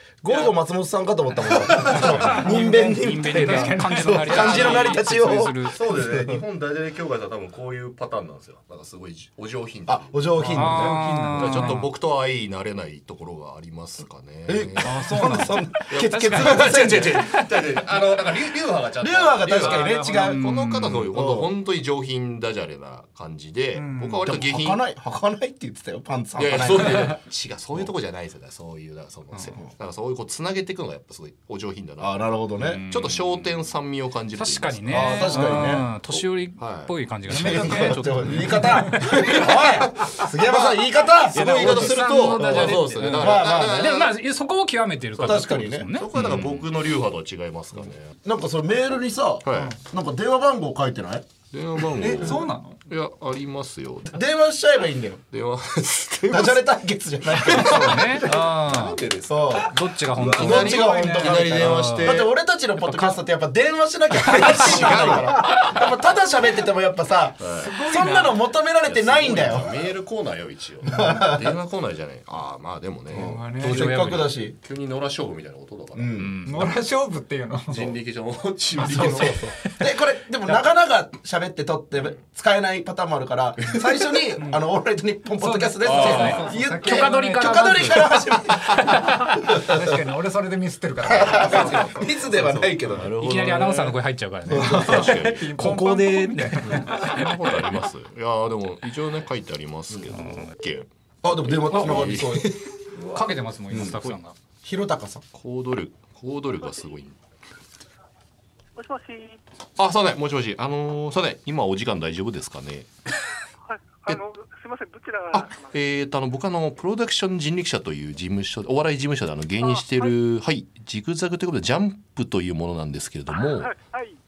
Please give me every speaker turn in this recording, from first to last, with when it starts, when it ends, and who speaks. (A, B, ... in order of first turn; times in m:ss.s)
0:00.2-0:06.4 A
0:01.9-0:02.4 B
0:01.9-0:05.8 C
0:02.2-0:04.3 D
0:04.3-0:05.0 B
0:05.7-0:15.0 B
0:09.9-0:11.0 A
0:10.4-0:11.8 D
0:10.5-0:11.9 C
0:14.5-0:17.3 A
0:14.8-0:15.5 D
0:15.9-0:24.8 B
0:15.9-0:17.5 C
0:19.0-0:20.4 A
0:19.6-0:21.1 C
0:21.1-0:21.5 A
0:23.8-0:24.3 D
0:24.2-0:27.2 A
0:26.4-0:32.3 B
0:32.0-0:32.8 A
0:32.6-0:33.5 C
0:32.9-0:36.9 B
0:34.4-0:38.8 C
0:34.9-0:35.9 A
0:37.3-0:39.0 D
0:37.3-0:43.9 A
0:39.1-0:40.8 B
0:41.3-0:44.1 B
0:41.3-0:46.6 C
0:45.2-0:48.2 B
0:45.2-0:45.9 A
0:48.2-0:51.3 A
0:49.4-0:49.8 B
0:51.5-0:54.2 B
0:51.9-0:52.4 A
0:52.2-0:52.8 D
0:54.1-0:55.2 A
0:55.3-0:56.8 B
0:56.3-0:58.3 A
0:57.3-1:02.3 B
0:57.6-0:59.0 C
0:59.3-1:09.9 A
0:59.6-1:02.2 C
1:00.8-1:01.5 D
1:02.8-1:03.2 C
1:04.3-1:05.8 C
1:04.3-1:05.6 B
1:07.4-1:07.7 B
1:07.6-1:08.4 D
1:08.9-1:16.7 B
1:10.9-1:11.6 A
1:10.9-1:11.2 D
1:13.1-1:14.0 D
1:13.1-1:14.6 A
1:13.6-1:14.4 C
1:16.0-1:16.4 A
1:16.2-1:16.8 C
1:16.5-1:17.9 D
1:17.7-1:19.4 B
1:18.8-1:29.8 A
1:24.4-1:24.6 D
1:25.4-1:27.9 D
1:25.8-1:26.5 B
1:26.0-1:29.4 C
1:29.5-1:31.9 D
1:31.1-1:33.1 A
1:32.4-1:35.5 B
1:33.1-1:37.3 C
1:34.5-1:35.1 A
1:34.7-1:36.9 D
1:36.7-1:40.9 B
1:41.2-1:42.5 A
1:41.5-1:42.6 B
1:41.8-1:42.2 C
1:43.1-1:44.4 C
1:43.7-1:44.0 A
1:43.8-1:44.2 B
1:44.6-1:45.2 A
1:45.3-1:47.2 B
1:48.8-1:49.4 E
1:49.8-1:52.9 B
1:53.7-1:55.7 E
1:55.3-2:03.8 B
1:59.6-2:00.1 E
2:03.3-2:04.2 E